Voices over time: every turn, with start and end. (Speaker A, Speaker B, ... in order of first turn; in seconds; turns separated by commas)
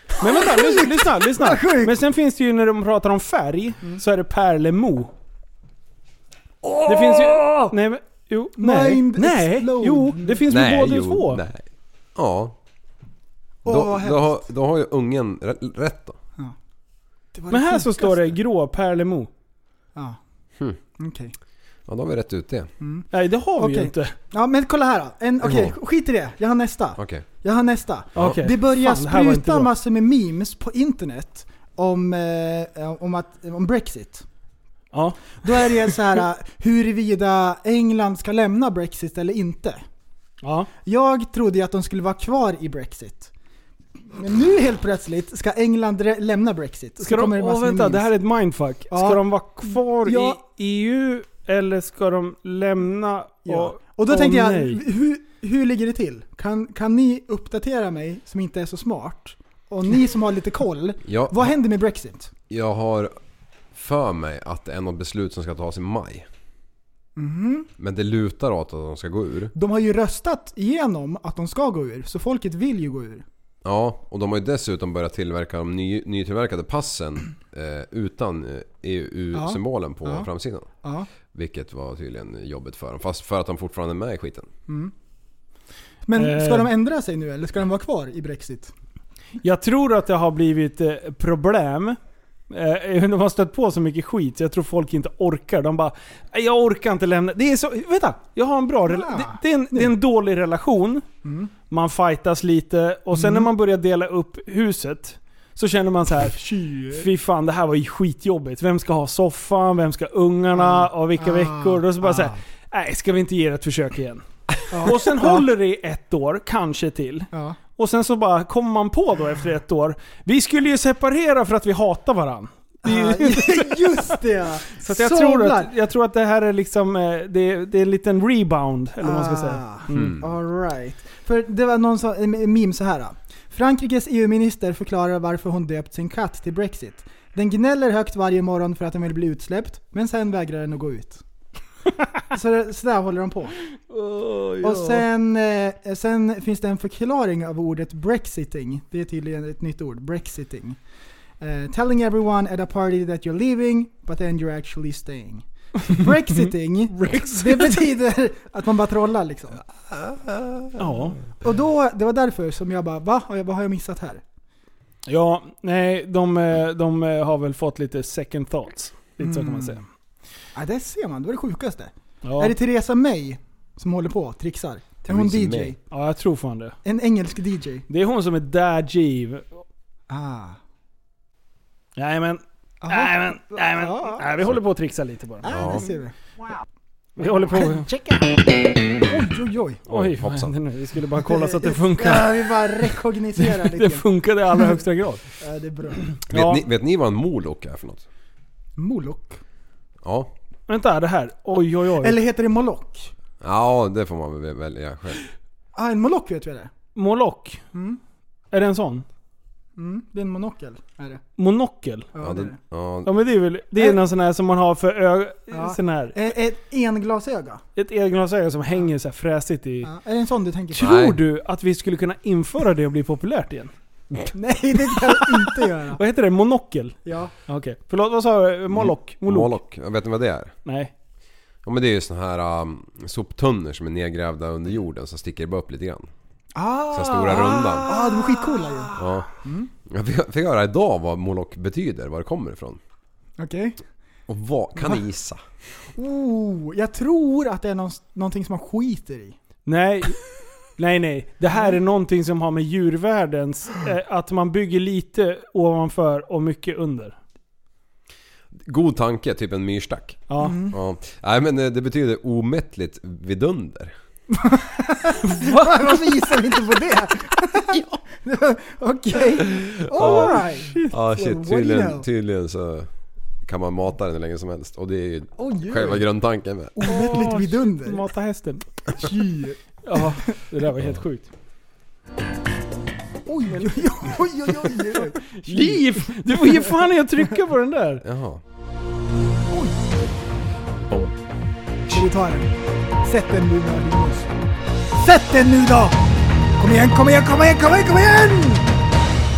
Speaker A: 0.2-5.1, Speaker B: 0.2-2.0, Speaker B: 6.6-7.7, Speaker A: 6.9-11.4, Speaker B: 8.6-10.4, Speaker C: 10.5-12.6, Speaker B: 13.7-14.4, Speaker C: 13.7-16.2, Speaker B: 17.3-18.3, Speaker A: 17.5-19.3, Speaker B: 21.0-21.3, Speaker C: 21.9-22.7, Speaker B: 22.8-34.2, Speaker A: 23.1-24.1, Speaker C: 25.4-25.8, Speaker C: 27.0-27.2, Speaker A: 28.2-29.7, Speaker A: 34.9-35.4, Speaker B: 35.4-39.8, Speaker A: 40.4-40.7, Speaker B: 40.9-43.3, Speaker B: 44.1-48.1, Speaker A: 47.0-54.8, Speaker B: 48.9-50.4, Speaker B: 53.5-62.3, Speaker C: 61.1-61.5, Speaker C: 62.5-63.1, Speaker C: 63.7-66.3, Speaker B: 67.2-67.7, Speaker C: 67.8-69.5, Speaker B: 69.5-73.2, Speaker C: 73.6-80.7, Speaker B: 79.3-80.3, Speaker B: 80.8-81.1, Speaker C: 81.3-84.5, Speaker B: 86.1-88.7, Speaker A: 86.2-86.7, Speaker A: 89.4-92.0, Speaker A: 92.5-101.1, Speaker B: 98.9-99.9, Speaker B: 101.2-101.5, Speaker A: 101.7-124.2, Speaker B: 103.1-103.5, Speaker B: 106.3-107.1, Speaker B: 110.5-112.4, Speaker B: 114.7-115.5, Speaker B: 117.3-117.6, Speaker B: 122.8-125.7, Speaker A: 124.8-130.2, Speaker B: 129.0-141.2, Speaker C: 129.9-130.3, Speaker B: 142.3-143.6, Speaker A: 143.9-145.1, Speaker B: 144.6-150.8, Speaker B: 151.4-159.6, Speaker A: 156.9-157.8, Speaker C: 160.0-160.7, Speaker A: 160.8-161.2, Speaker B: 161.4-164.2, Speaker A: 165.1-169.8, Speaker B: 169.2-169.8, Speaker B: 170.6-175.8, Speaker A: 172.2-172.5, Speaker C: 175.1-175.8, Speaker A: 175.9-176.8, Speaker B: 176.8-177.8, Speaker A: 177.9-179.6, Speaker B: 180.1-180.6, Speaker A: 182.0-185.5, Speaker B: 182.8-184.4, Speaker B: 185.4-186.1, Speaker C: 185.5-185.9, Speaker A: 187.2-187.9, Speaker B: 187.2-189.8, Speaker A: 189.9-192.3, Speaker C: 189.9-190.5, Speaker B: 191.2-194.8, Speaker A: 193.4-195.2, Speaker B: 195.4-196.1, Speaker A: 196.1-196.6, Speaker C: 196.3-198.0, Speaker B: 198.8-199.4, Speaker C: 200.0-200.3, Speaker A: 200.7-202.2, Speaker B: 202.0-203.1, Speaker C: 203.4-205.2, Speaker B: 205.8-206.7, Speaker A: 206.9-207.6, Speaker B: 207.7-208.0, Speaker A: 208.5-209.1, Speaker B: 209.8-211.2, Speaker A: 211.4-212.1, Speaker B: 212.1-212.6, Speaker C: 212.2-213.1, Speaker A: 213.1-216.2, Speaker B: 215.5-217.6, Speaker A: 217.8-219.9, Speaker B: 219.8-221.0, Speaker A: 220.7-223.7, Speaker C: 220.8-221.2, Speaker B: 224.3-226.0, Speaker A: 226.0-229.6, Speaker B: 227.1-227.3, Speaker C: 228.7-230.5, Speaker A: 230.7-230.9, Speaker C: 231.6-236.1, Speaker B: 236.6-239.7, Speaker C: 236.9-237.9, Speaker A: 237.3-238.8, Speaker C: 239.0-239.3, Speaker C: 239.9-242.8, Speaker B: 243.4-243.8, Speaker C: 244.3-245.4, Speaker B: 245.9-249.4, Speaker A: 249.7-250.2, Speaker A: 250.8-257.2, Speaker C: 258.6-263.9, Speaker A: 260.3-260.6, Speaker B: 260.4-260.8, Speaker B: 264.4-272.1, Speaker A: 265.2-266.0, Speaker C: 269.6-272.9, Speaker A: 270.0-270.9, Speaker C: 273.4-277.1, Speaker B: 275.4-276.0, Speaker B: 276.8-278.0, Speaker A: 276.9-278.7, Speaker B: 279.0-279.6, Speaker A: 279.8-281.3, Speaker B: 283.3-286.8, Speaker A: 285.4-288.0, Speaker C: 288.0-288.4, Speaker B: 289.5-289.9, Speaker B: 291.9-294.3, Speaker B: 295.0-296.0, Speaker B: 296.6-298.7